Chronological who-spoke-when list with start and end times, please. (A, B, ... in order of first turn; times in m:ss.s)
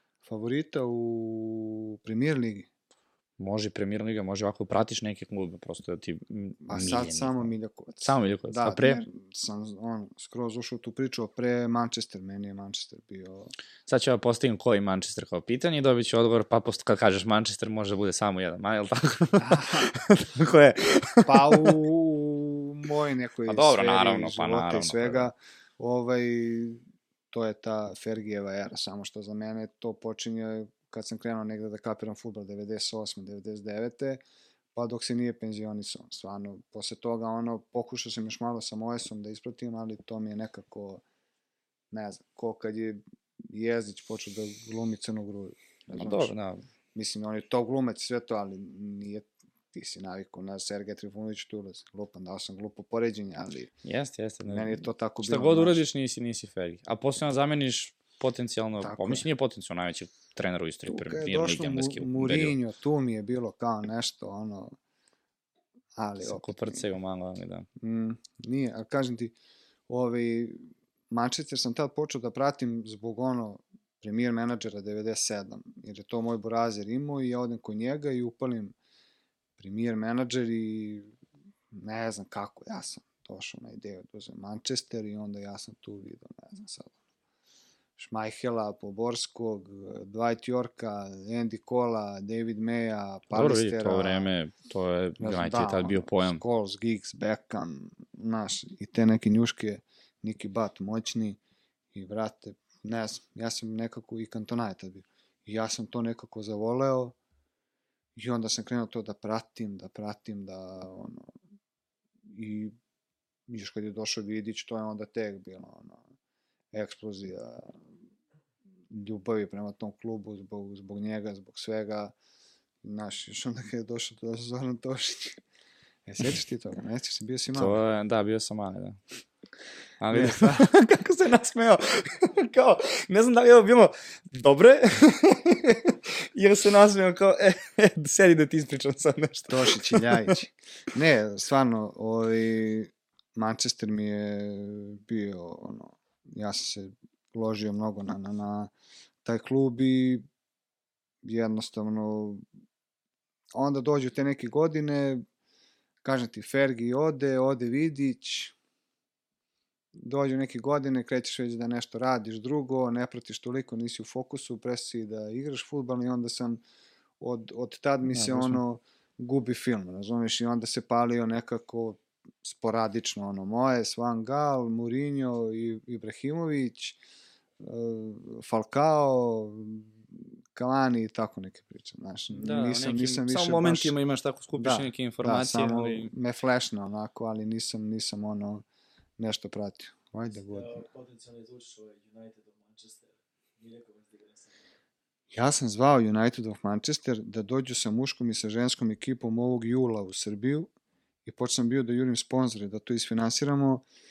0:00.2-0:02.7 A
0:03.4-0:09.0 B
0:06.6-0:13.5 A
0:13.9-0:21.8 B
0:19.4-0:19.9 A
0:21.2-0:34.2 A
0:23.5-0:25.3 B
0:34.7-0:41.0 A
0:41.9-0:46.3 A
0:45.9-0:46.6 B
0:46.9-0:53.7 A
0:53.8-1:02.6 B
0:54.5-0:55.8 A
0:58.8-0:59.2 A
1:00.8-1:04.8 A
1:06.0-1:06.9 A
1:06.2-1:07.7 B
1:07.8-1:09.3 A
1:09.9-1:18.8 A
1:19.6-1:21.1 A
1:21.7-1:26.9 A
1:28.0-1:34.3 A
1:33.3-1:36.4 B
1:35.2-1:41.4 A
1:41.9-1:47.2 A
1:48.2-1:51.3 A
1:52.3-1:52.7 A
1:53.5-1:56.0 A
1:56.7-1:57.8 A
1:58.9-2:02.1 A
2:02.8-2:05.4 A
2:06.0-2:07.8 A
2:07.5-2:09.0 B
2:10.0-2:20.3 B
2:10.1-2:10.6 A
2:19.5-2:28.7 A
2:29.2-2:30.2 A
2:31.2-2:32.4 A
2:33.5-2:35.2 A
2:36.0-2:38.6 A
2:40.0-2:46.6 A
2:47.2-2:57.0 A
2:48.1-2:48.6 B
2:57.6-3:03.9 A
3:02.3-3:06.1 B
3:04.6-3:08.6 A
3:09.2-3:10.8 A
3:10.4-3:14.6 C
3:15.3-3:20.7 A
3:21.2-3:23.8 A